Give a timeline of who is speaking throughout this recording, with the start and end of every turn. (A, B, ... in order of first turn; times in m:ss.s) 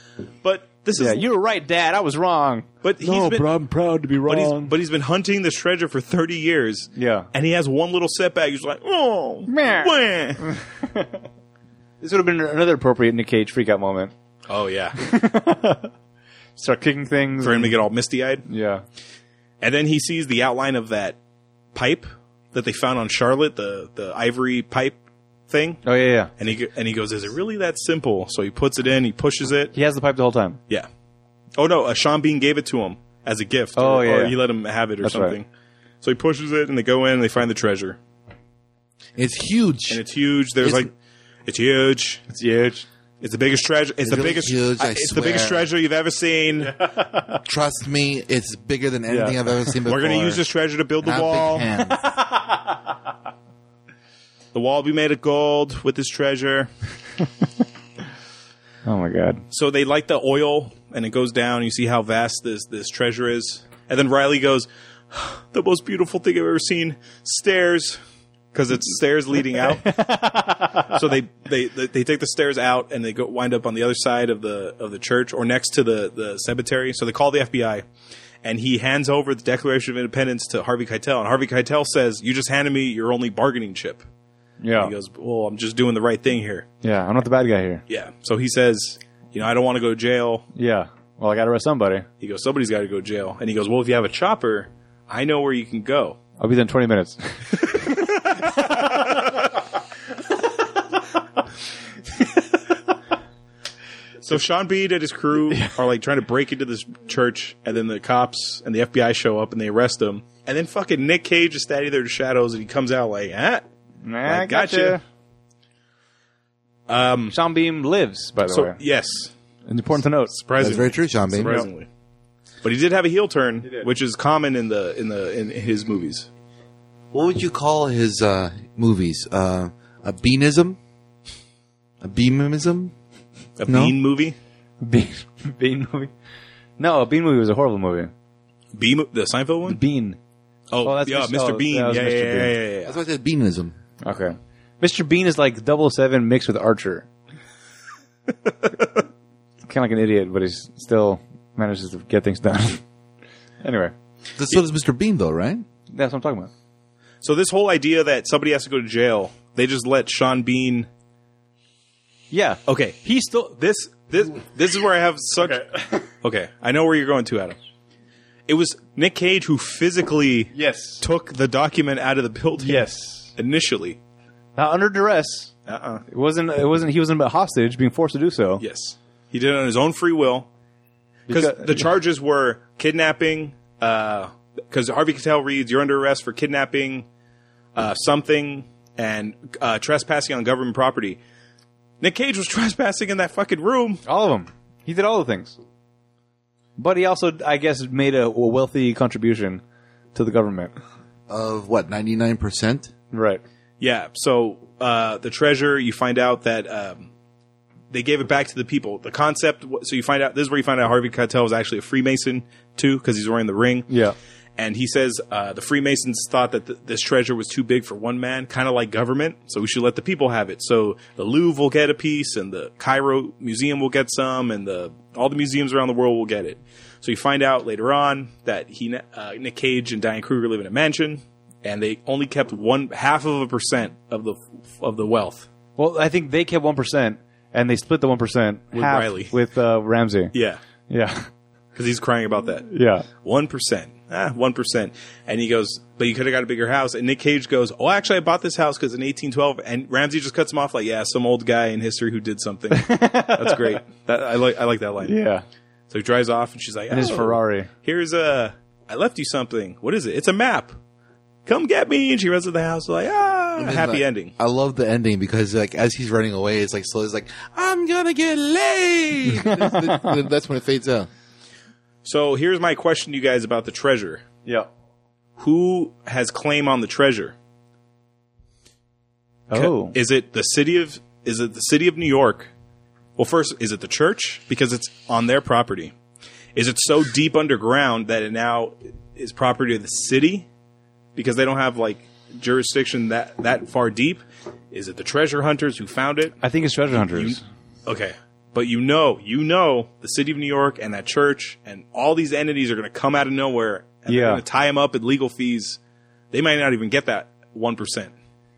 0:00.4-0:01.2 A
0:00.9-0:04.7 B
0:02.8-0:03.5 A
0:04.2-0:10.5 A
0:07.0-0:07.3 B
0:09.5-0:11.2 B
0:12.0-0:14.1 B
0:14.5-0:15.0 A
0:15.0-0:15.9 B
0:16.6-0:17.7 B
0:17.4-0:18.4 A
0:18.4-0:18.8 B
0:19.6-0:21.2 A
0:21.7-0:25.0 A
0:25.5-0:25.8 A
0:25.8-0:26.3 B
0:26.4-0:29.7 A
0:29.7-0:30.6 B
0:31.6-0:35.4 A
0:33.8-0:34.4 B
0:35.0-0:35.4 B
0:36.0-0:38.0 A
0:39.2-0:40.0 C
0:39.9-0:40.9 A
0:41.4-0:42.2 A
0:42.3-0:42.8 B
0:43.2-0:46.8 A
0:44.0-0:45.7 C
0:46.8-0:47.4 B
0:47.4-0:50.4 C
0:49.1-0:49.8 B
0:49.8-0:51.7 A
0:51.0-0:52.0 C
0:51.7-0:52.8 B
0:54.5-0:56.7 A
0:58.8-0:59.4 B
0:59.5-1:08.0 A
1:08.5-1:09.9 A
1:09.8-1:11.0 B
1:10.8-1:17.8 A
1:18.4-1:24.0 A
1:24.6-1:24.9 B
1:24.8-1:26.6 A
1:26.8-1:27.8 B
1:27.9-1:30.4 A
1:30.5-1:32.1 B
1:32.2-1:36.2 A
1:36.4-1:39.3 B
1:38.8-1:39.2 A
1:44.2-1:53.6 A
1:45.5-1:45.8 B
1:54.0-1:55.0 B
1:54.2-1:55.0 A
1:56.9-1:57.3 A
1:57.3-1:58.8 B
1:58.5-1:59.3 A
1:59.7-2:00.4 B
2:00.3-2:01.9 A
2:00.6-2:01.5 C
2:02.6-2:06.3 A
2:07.1-2:10.8 C
2:12.0-2:12.9 C
2:13.6-2:14.3 A
2:13.7-2:14.0 C
2:14.8-2:16.1 B
2:16.8-2:18.1 B
2:18.7-2:19.8 A
2:19.6-2:20.2 B
2:20.7-2:23.0 A
2:20.8-2:22.6 B
2:22.8-2:23.8 C
2:24.0-2:27.1 B
2:29.7-2:32.8 B
2:33.6-2:33.9 B
2:34.4-2:35.6 C
2:35.9-2:36.5 B
2:37.2-2:40.9 A
2:42.3-2:43.2 B
2:42.7-2:47.6 A
2:45.4-2:46.0 B
2:48.5-2:52.8 A
2:50.5-2:51.0 B
2:52.6-2:53.3 B
2:53.4-2:54.0 A
2:54.6-2:55.5 B
2:55.7-2:56.0 A
2:56.1-2:58.6 B
2:58.6-3:00.5 A
3:01.3-3:01.8 B
3:01.3-3:07.0 A
3:07.7-3:11.2 A
3:12.0-3:14.0 A
3:14.0-3:15.6 B
3:16.8-3:19.6 B
3:20.1-3:20.7 B
3:21.3-3:22.9 C
3:23.1-3:23.4 B
3:23.8-3:27.1 A
3:27.9-3:33.9 A
3:33.9-3:34.1 B
3:34.6-3:55.5 A
3:55.8-4:00.3 B
3:58.7-3:59.3 A
4:00.3-4:00.6 A
4:00.9-4:01.3 B
4:01.7-4:02.7 A
4:02.7-4:03.1 B
4:03.2-4:15.2 A
4:12.7-4:13.8 B
4:15.0-4:15.4 B
4:15.9-4:20.8 A
4:16.9-4:17.7 B
4:21.4-4:24.3 A
4:23.6-4:31.1 C
4:29.3-4:30.1 B
4:32.0-4:34.2 A
4:35.4-4:37.3 A
4:39.5-4:39.9 B
4:39.5-4:42.5 A
4:43.2-4:45.9 A
4:46.5-4:50.5 A
4:51.2-4:56.4 A
4:56.4-4:57.4 B
4:57.0-5:05.8 A
5:04.1-5:04.4 B
5:06.3-5:08.1 A